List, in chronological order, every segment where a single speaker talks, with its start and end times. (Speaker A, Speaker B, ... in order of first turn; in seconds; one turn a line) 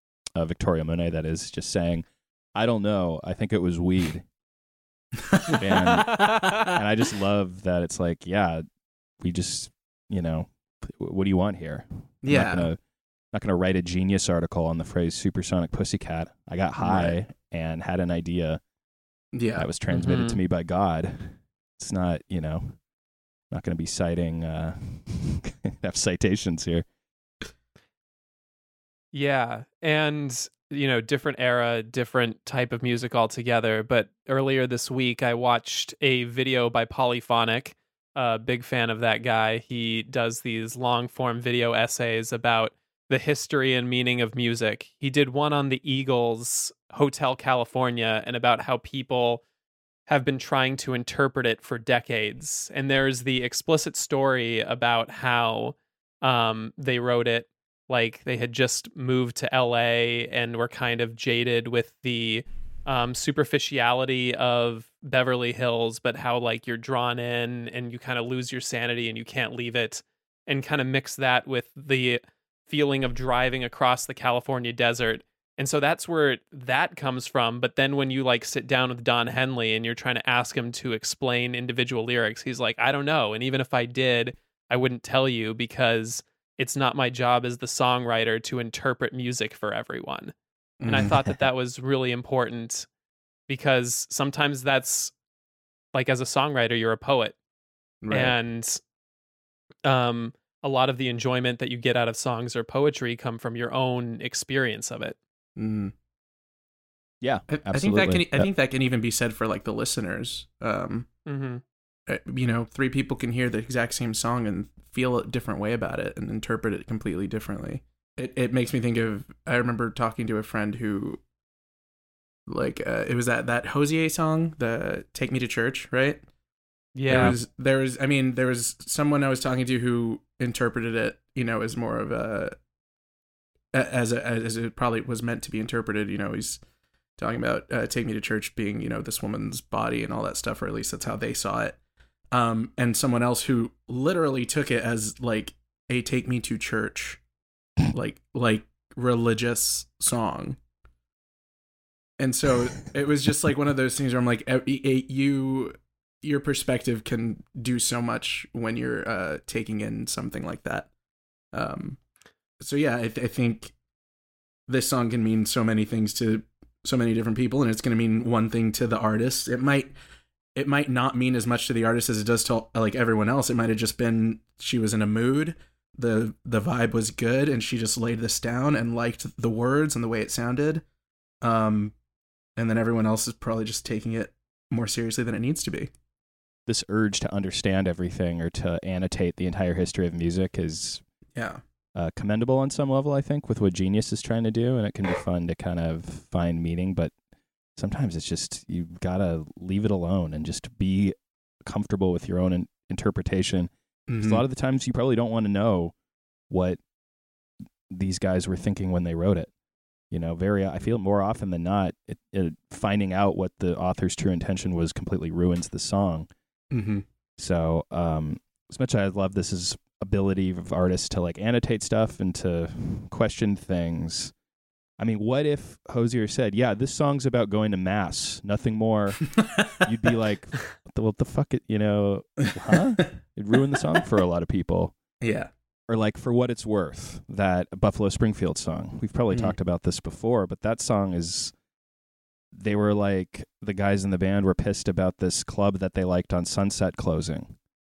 Speaker A: 0.3-4.2
Speaker B: 5.3-6.8
Speaker A: 5.6-8.6
Speaker A: 9.2-12.8
Speaker B: 12.2-12.7
Speaker A: 13.3-18.6
Speaker B: 16.8-17.1
Speaker B: 19.3-19.7
Speaker A: 19.6-22.8
Speaker C: 19.9-20.4
Speaker A: 23.5-26.9
Speaker C: 29.1-49.4
Speaker C: 50.1-90.3
Speaker B: 90.8-91.1
Speaker C: 90.8-92.9
Speaker C: 93.5-95.1
Speaker C: 95.9-97.3
Speaker B: 98.0-98.3
Speaker C: 98.1-98.8
Speaker C: 99.8-105.2
Speaker B: 105.6-105.9
Speaker A: 107.2-108.5
Speaker B: 107.5-111.1
Speaker C: 111.2-111.6
Speaker B: 112.1-121.2
Speaker B: 122.5-126.2
Speaker C: 126.9-127.4
Speaker B: 127.1-132.6
Speaker B: 133.7-136.6
Speaker B: 137.2-141.8
Speaker B: 142.3-147.2
Speaker B: 147.9-150.6
Speaker B: 152.2-160.9
Speaker B: 161.5-162.0
Speaker B: 162.6-163.7
Speaker B: 164.7-169.9
Speaker B: 170.6-180.8
Speaker B: 181.4-181.9
Speaker B: 182.6-185.9
Speaker A: 186.7-191.0
Speaker B: 191.3-191.6
Speaker A: 191.9-197.1
Speaker A: 197.8-205.9
Speaker B: 204.1-204.4
Speaker A: 206.5-206.8
Speaker A: 207.9-209.5
Speaker A: 210.1-216.3
Speaker B: 216.7-217.0
Speaker A: 217.4-224.3
Speaker A: 225.0-234.9
Speaker B: 235.2-235.5
Speaker A: 235.9-241.5
Speaker B: 239.3-239.6
Speaker A: 242.5-247.5